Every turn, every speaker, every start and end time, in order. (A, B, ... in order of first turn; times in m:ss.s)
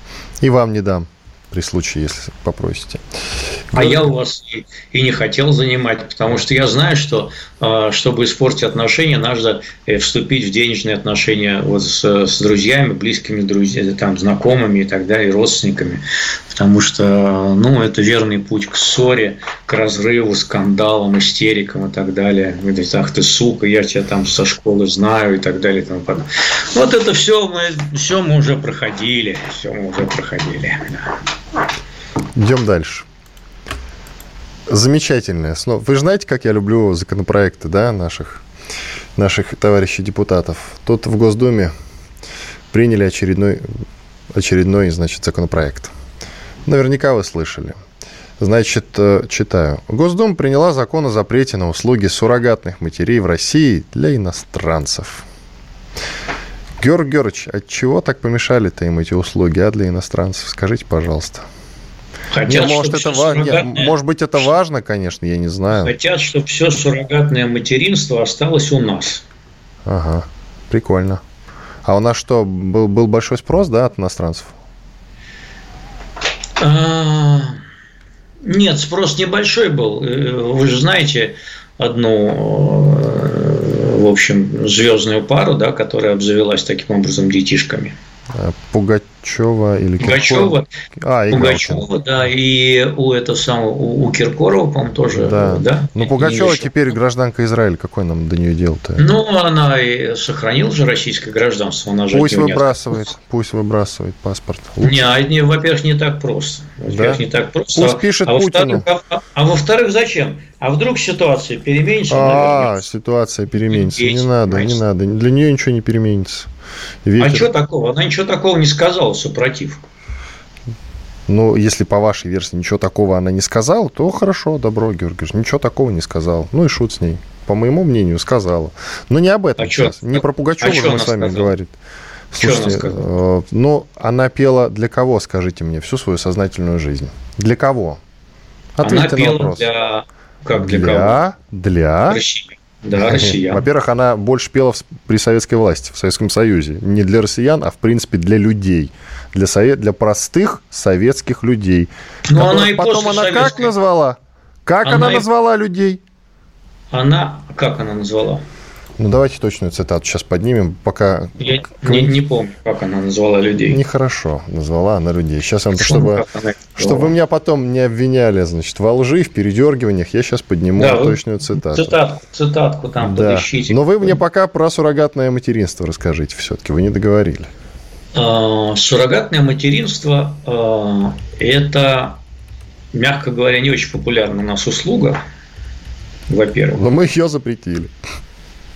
0:00.4-0:03.0 A
0:03.7-0:04.0 A
0:03.7-0:31.2 B
0:32.4-0:33.1 A
0:34.7-0:38.4 A
0:39.2-0:41.7 A
0:42.7-0:43.8 A
0:44.3-0:45.9 A
0:46.7-0:47.8 A
0:48.4-0:55.3 A
0:56.8-1:01.5 A
1:02.3-1:03.9 B
1:02.5-1:05.9 A
1:05.7-1:09.2 B
1:09.8-1:11.2 A
1:11.8-1:14.6 A
1:16.6-1:17.6 B
1:18.4-1:28.0 B
1:28.3-1:31.8 A
1:30.0-1:30.7 B
1:31.3-1:36.8 B
1:35.1-1:39.1 A
1:39.0-1:43.0 B
1:42.1-1:45.0 A
1:44.8-1:52.8 B
1:46.9-1:47.2 A
1:47.8-1:48.8 A
1:52.1-1:56.5 A
1:53.6-1:54.8 B
1:57.0-1:57.5 A
1:57.2-1:59.9 B
2:01.3-2:11.8 A
2:09.6-2:11.5 B
2:12.3-2:18.0 A
2:12.4-2:13.0 B
2:18.8-2:19.7 A
2:18.8-2:21.2 B
2:20.5-2:22.2 A
2:22.1-2:23.6 B
2:23.0-2:36.0 A
2:32.3-2:33.7 B
2:34.8-2:35.3 B
2:36.9-2:38.4 B
2:39.0-2:42.2 A
2:41.4-2:43.8 B
2:43.7-2:46.2 A
2:45.7-2:47.1 B
2:46.8-2:52.0 A
2:50.8-2:54.2 B
2:53.0-2:57.5 A
2:58.1-3:02.2 B
3:02.9-3:05.2 B
3:06.3-3:06.8 B
3:06.7-3:07.9 A